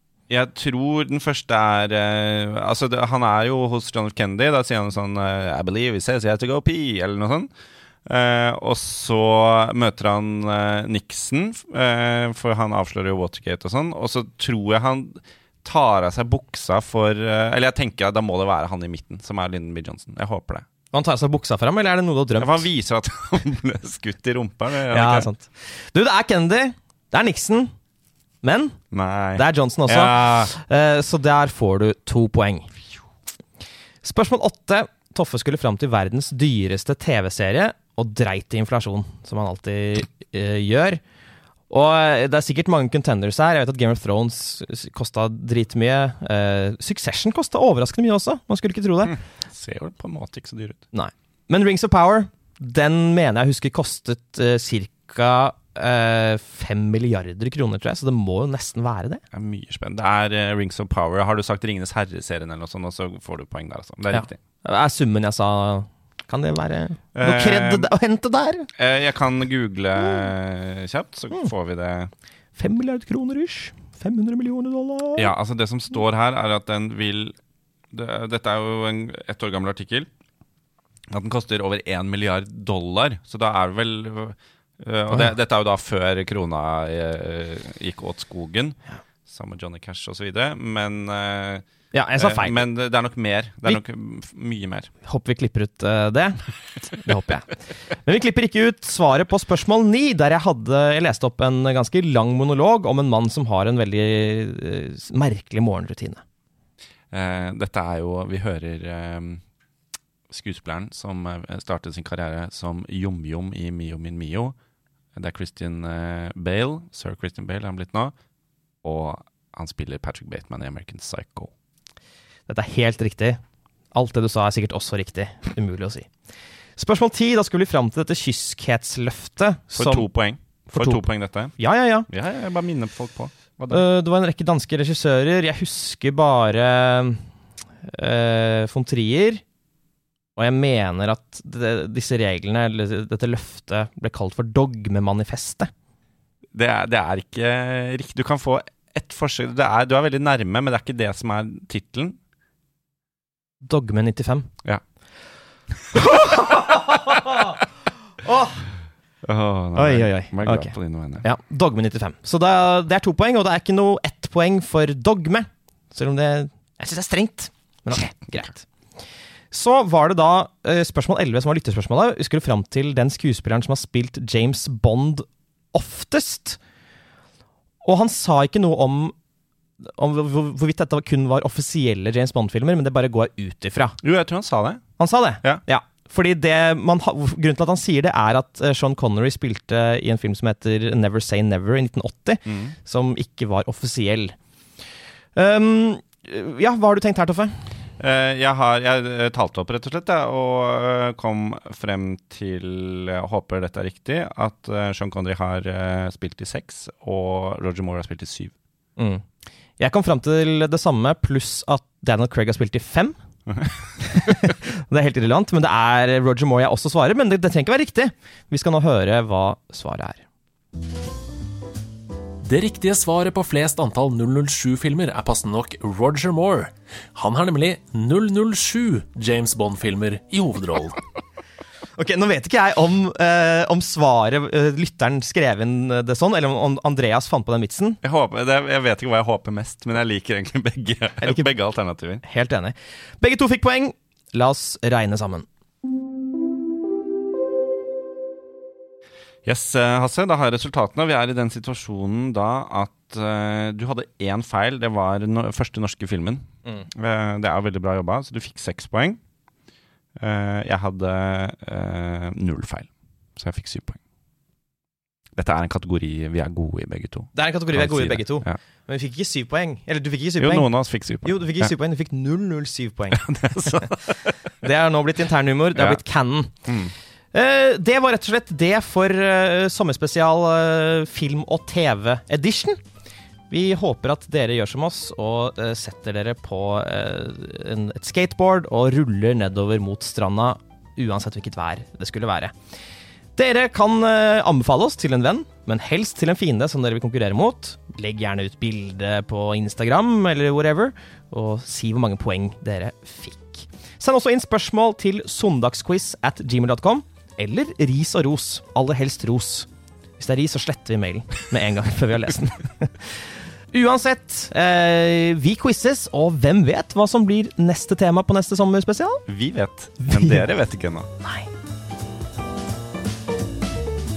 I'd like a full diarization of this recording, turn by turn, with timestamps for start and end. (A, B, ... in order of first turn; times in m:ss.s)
0:00.3-0:07.5 A
0:08.0-0:20.6 A
0:20.9-0:22.6 B
0:22.4-0:25.3 A
0:24.9-0:27.7 B
0:28.4-0:28.8 B
0:28.9-0:30.5 A
0:29.4-0:32.7 B
0:34.0-0:41.0 B
0:41.7-0:49.2 B
0:49.1-0:50.8 A
0:50.9-0:59.2 B
0:59.3-1:04.4 A
1:04.1-1:08.7 B
1:07.1-1:07.9 A
1:08.8-1:12.1 A
1:12.6-1:15.3 B
1:15.2-1:17.4 A
1:17.9-1:20.1 A
1:21.1-1:31.6 A
1:31.9-1:32.6 B
1:32.2-1:34.9 A
1:35.0-1:37.5 B
1:38.0-1:46.2 B
1:47.1-1:49.4 A
1:50.3-1:54.5 A
1:55.1-1:58.1 A
1:58.8-2:01.5 A
2:02.5-2:03.4 B
2:03.9-2:06.1 B
2:06.8-2:10.1 B
2:09.8-2:11.5 A
2:10.7-2:11.0 B
2:11.6-2:12.1 B
2:12.1-2:13.8 A
2:13.7-2:17.2 B
2:17.9-2:19.4 B
2:20.4-2:25.7 B
2:26.5-2:32.2 A
2:33.6-2:34.5 B
2:35.9-2:37.6 B
2:38.2-2:38.6 B
2:39.2-2:41.2 A
2:39.8-2:48.6 B
2:49.5-2:56.6 B
2:57.8-2:59.1 B
2:59.8-3:04.0 B
3:04.0-3:04.8 A
3:05.0-3:14.4 B
3:12.5-3:12.7 A
3:15.3-3:17.6 B
3:18.0-3:28.5 A
3:29.0-3:29.2 B
3:29.8-3:33.2 B
3:34.0-3:40.2 B
3:42.4-3:51.0 C
3:52.0-3:58.0 B
3:58.0-4:02.2 A
4:01.2-4:01.5 B
4:02.2-4:05.4 B
4:09.4-4:19.2 A
4:20.2-4:24.0 A
4:25.4-4:28.6 A
4:27.3-4:30.7 B
4:30.4-4:31.7 A
4:31.2-4:33.9 B
4:33.1-4:34.3 A
4:34.6-4:36.5 B
4:35.7-4:36.0 A
4:36.6-4:36.9 A
4:37.3-4:42.8 B
4:43.5-4:52.5 B
4:53.4-5:09.7 B
5:10.2-5:13.2 B
5:13.7-5:19.2 B
5:19.3-5:21.1 A
5:20.0-5:20.4 B
5:21.2-5:21.5 B